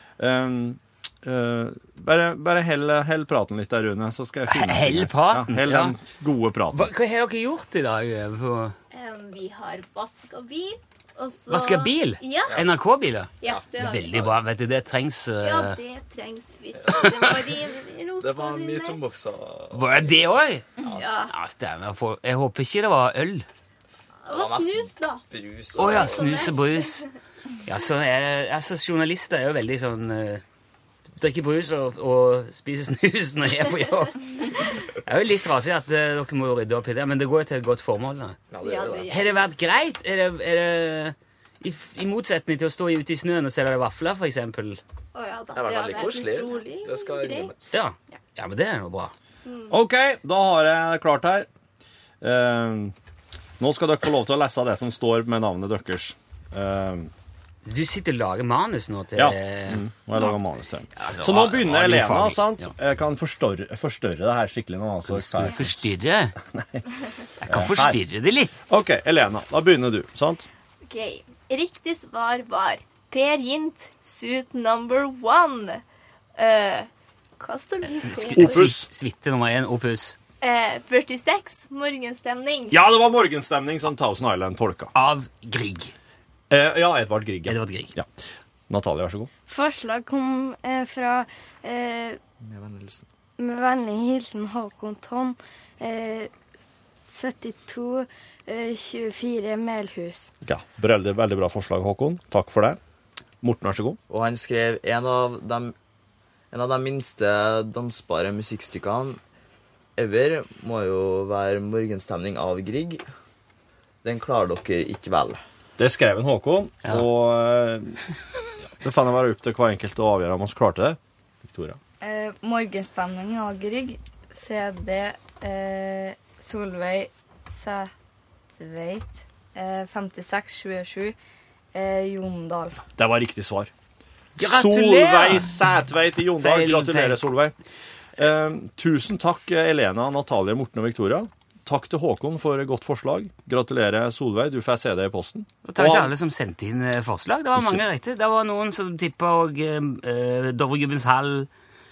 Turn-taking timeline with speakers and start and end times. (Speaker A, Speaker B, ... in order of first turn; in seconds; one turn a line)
Speaker A: 0.2-6.9
Speaker B: 4.5-6.0
Speaker B: 6.7-8.8
Speaker C: 8.9-12.6
Speaker B: 11.5-15.8
Speaker C: 13.4-14.3
Speaker D: 13.4-14.3
Speaker C: 15.4-19.0
Speaker D: 16.9-17.5
Speaker D: 18.2-20.2
Speaker B: 19.7-20.7
Speaker D: 20.8-21.1
Speaker C: 20.8-21.3
Speaker B: 21.3-23.5
Speaker C: 24.3-27.0
Speaker D: 24.3-26.5
Speaker B: 25.8-27.0
Speaker B: 27.6-30.4
Speaker B: 31.2-38.4
Speaker D: 38.5-39.2
Speaker C: 38.6-39.4
Speaker B: 39.1-44.8
Speaker C: 45.1-47.6
Speaker D: 45.5-47.8
Speaker B: 47.7-49.1
Speaker C: 49.5-49.7
Speaker A: 49.7-51.5
Speaker A: 52.2-53.0
Speaker A: 53.6-57.1
Speaker B: 57.6-59.9
Speaker A: 59.2-66.8
Speaker B: 61.0-62.7
Speaker B: 65.1-66.4
Speaker B: 67.4-68.5
Speaker A: 67.5-68.0
Speaker A: 68.7-70.5
Speaker C: 70.9-75.8
Speaker C: 76.4-76.9
Speaker C: 77.4-78.7
Speaker B: 77.8-80.2
Speaker A: 78.3-78.9
Speaker C: 80.4-82.8
Speaker A: 82.7-84.9
Speaker B: 85.0-85.9
Speaker A: 86.5-89.3
Speaker B: 87.5-88.0
Speaker E: 89.5-92.2
Speaker D: 92.4-93.0
Speaker E: 93.4-96.3
Speaker E: 97.0-100.3
Speaker A: 100.4-102.8
Speaker A: 103.4-104.0
Speaker D: 104.1-105.8
Speaker D: 106.5-109.2
Speaker D: 110.0-113.0
Speaker D: 114.0-115.4
Speaker A: 115.8-117.9
Speaker A: 118.6-121.8
Speaker F: 122.0-127.9
Speaker F: 128.5-131.2
Speaker F: 131.7-132.8
Speaker A: 133.0-133.7
Speaker B: 134.4-135.5
Speaker A: 134.4-137.6
Speaker B: 136.4-137.2
Speaker A: 138.2-146.1
Speaker B: 145.7-151.5
Speaker A: 147.6-147.8